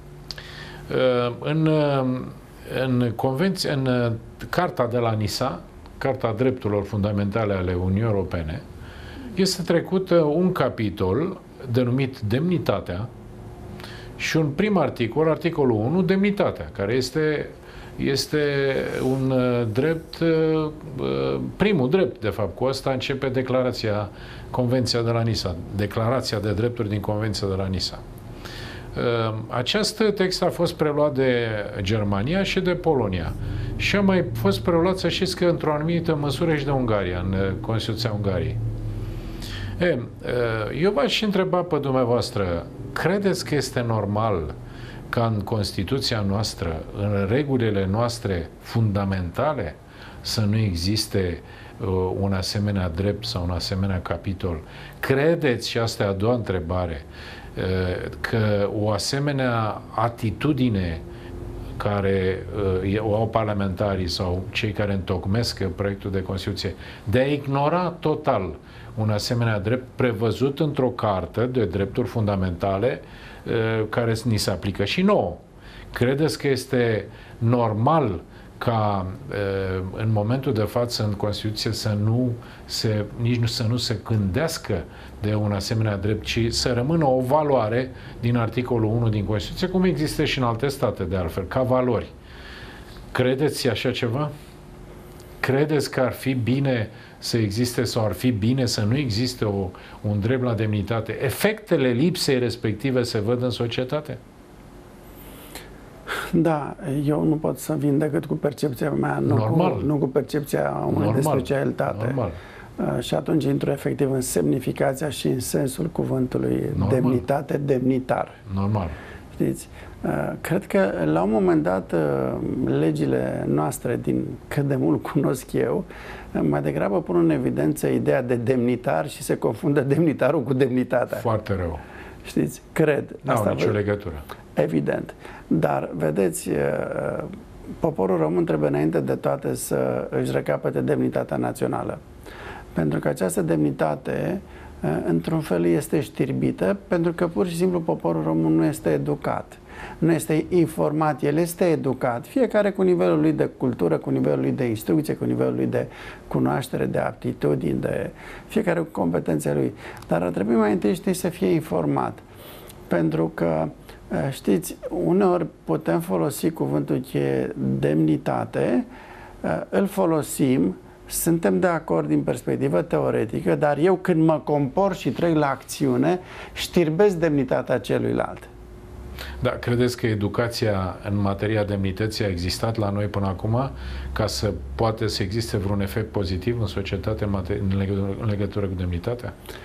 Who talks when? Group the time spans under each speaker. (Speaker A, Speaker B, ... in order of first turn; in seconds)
Speaker A: 0.9-8.6, 9.3-13.1, 14.2-28.0, 28.9-38.6, 39.8-44.5, 45.1-61.0, 61.8-75.4, 75.9-92.1, 93.1-94.3, 95.4-104.2, 109.2-109.9, 110.9-112.4, 116.7-117.2, 118.5-119.0, 131.2-131.8, 133.2-134.2, 179.4-189.3
Speaker B: 106.2-112.2, 112.8-118.4, 119.4-131.2, 132.2-133.8, 134.6-137.3, 137.8-142.0, 142.7-162.2, 162.9-168.8, 169.4-178.5